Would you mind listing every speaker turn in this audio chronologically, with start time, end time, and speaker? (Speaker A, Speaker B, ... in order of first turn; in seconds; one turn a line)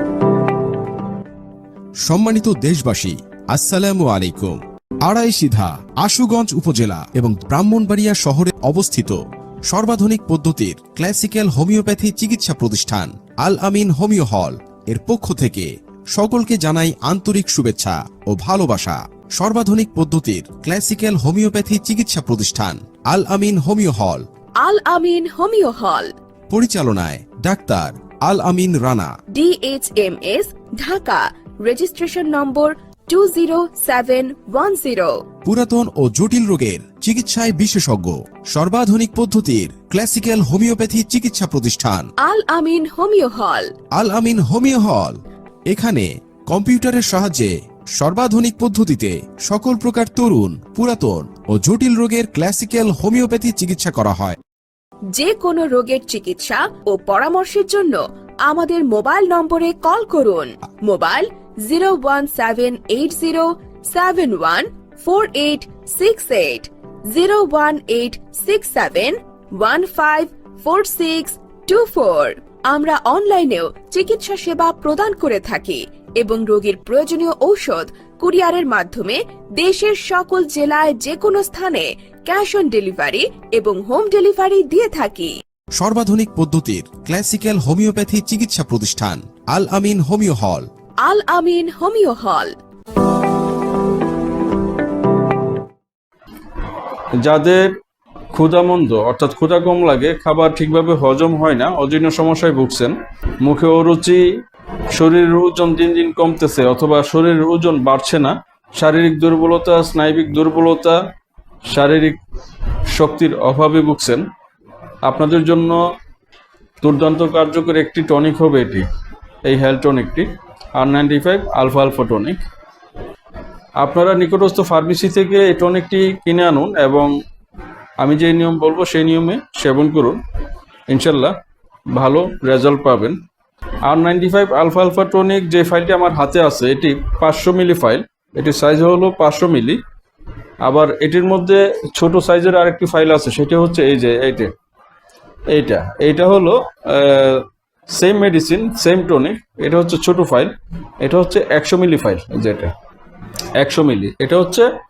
Speaker A: 2.0-24.2
Speaker B: 24.6-26.1
Speaker A: 26.5-29.1
Speaker B: 29.3-35.2
Speaker A: 35.4-42.1
Speaker B: 42.2-43.7
Speaker A: 43.9-45.2
Speaker A: 45.7-54.4
Speaker B: 55.1-85.3
Speaker A: 85.8-90.7
Speaker B: 91.0-92.5
Speaker C: 97.2-97.8
Speaker C: 98.3-104.2
Speaker C: 104.9-111.0
Speaker C: 111.7-112.2
Speaker C: 112.9-114.2
Speaker C: 115.0-115.8
Speaker C: 116.8-118.9
Speaker C: 119.4-122.4
Speaker C: 123.8-127.1
Speaker C: 128.0-130.2
Speaker C: 130.9-131.3
Speaker C: 131.9-133.2
Speaker C: 133.8-139.8
Speaker C: 140.6-144.5
Speaker C: 145.5-152.7
Speaker C: 153.6-154.7